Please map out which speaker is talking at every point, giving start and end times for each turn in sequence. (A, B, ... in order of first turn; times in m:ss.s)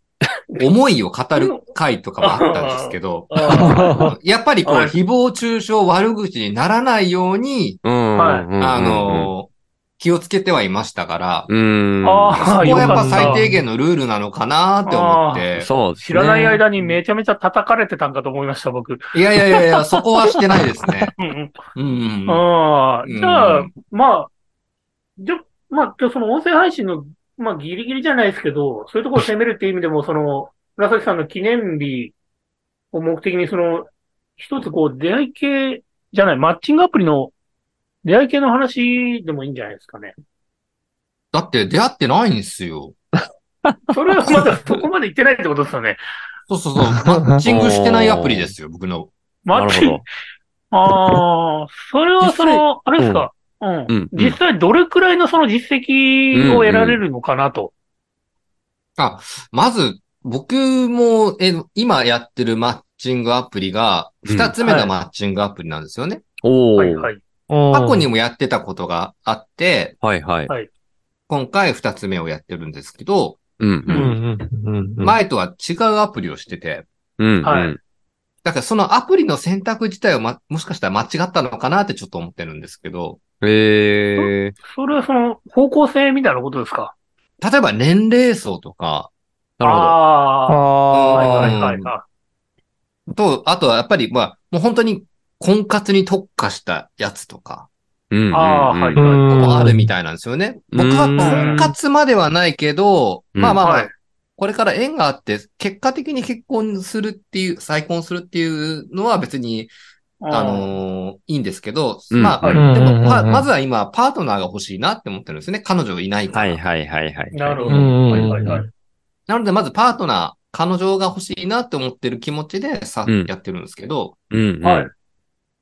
0:00.6-0:07.8 A
0:01.4-0:01.6 B
0:02.2-0:04.1 B
0:03.5-0:04.1 C
0:04.6-0:04.9 B
0:07.8-0:09.3 D
0:08.2-0:08.5 B
0:08.6-0:11.5 A
0:11.5-0:13.3 D
0:12.0-0:13.4 B
0:12.3-0:15.7 A
0:12.8-0:13.6 C
0:14.8-0:15.5 B
0:15.6-0:16.6 D
0:16.0-0:20.4 B
0:19.1-0:21.2 A
0:21.2-0:21.5 B
0:21.8-0:22.4 A
0:22.3-0:24.3 B
0:23.0-0:23.7 A
0:25.2-0:32.1 B
0:32.9-0:37.3 B
0:38.0-0:40.1 B
0:41.3-0:42.9 A
0:43.6-0:44.8 D
0:43.9-0:46.0 B
0:46.5-0:49.1 A
0:46.9-0:47.4 C
0:47.4-0:48.5 D
0:49.4-0:50.0 B
0:49.5-0:50.0 D
0:50.7-0:57.7 B
0:52.2-0:53.3 D
0:53.9-0:54.4 D
0:56.3-0:57.0 D
0:59.0-1:06.2 A
1:04.2-1:04.5 D
1:04.6-1:04.9 B
1:06.4-1:07.1 D
1:06.8-1:07.2 B
1:07.5-1:08.1 C
1:07.7-1:10.0 A
1:10.0-1:10.5 D
1:11.3-1:13.4 A
1:13.6-1:14.1 D
1:13.9-1:14.2 B
1:13.9-1:15.2 C
1:15.0-1:16.8 A
1:17.2-1:17.8 D
1:17.4-1:17.8 B
1:18.4-1:23.2 A
1:23.4-1:24.5 D
1:24.2-1:26.9 B
1:27.4-1:29.1 A
1:29.6-1:30.0 D
1:29.6-1:32.0 B
1:30.5-1:31.5 C
1:30.9-1:31.9 A
1:33.1-1:37.7 A
1:38.1-1:39.0 D
1:38.3-1:39.3 B
1:39.0-1:39.9 C
1:39.3-1:49.7 A
1:40.7-1:41.3 D
1:41.1-1:41.7 C
1:41.2-1:41.6 B
1:43.3-1:43.6 D
1:43.6-1:43.9 B
1:50.2-1:50.7 B
1:50.3-1:56.6 A
1:52.1-1:52.5 D
1:52.4-1:52.6 B
1:52.6-1:53.5 C
1:56.3-1:58.6 D
1:57.3-1:58.7 B
1:57.7-1:58.7 C
1:59.3-2:04.2 A
2:04.3-2:04.9 D
2:04.6-2:04.9 B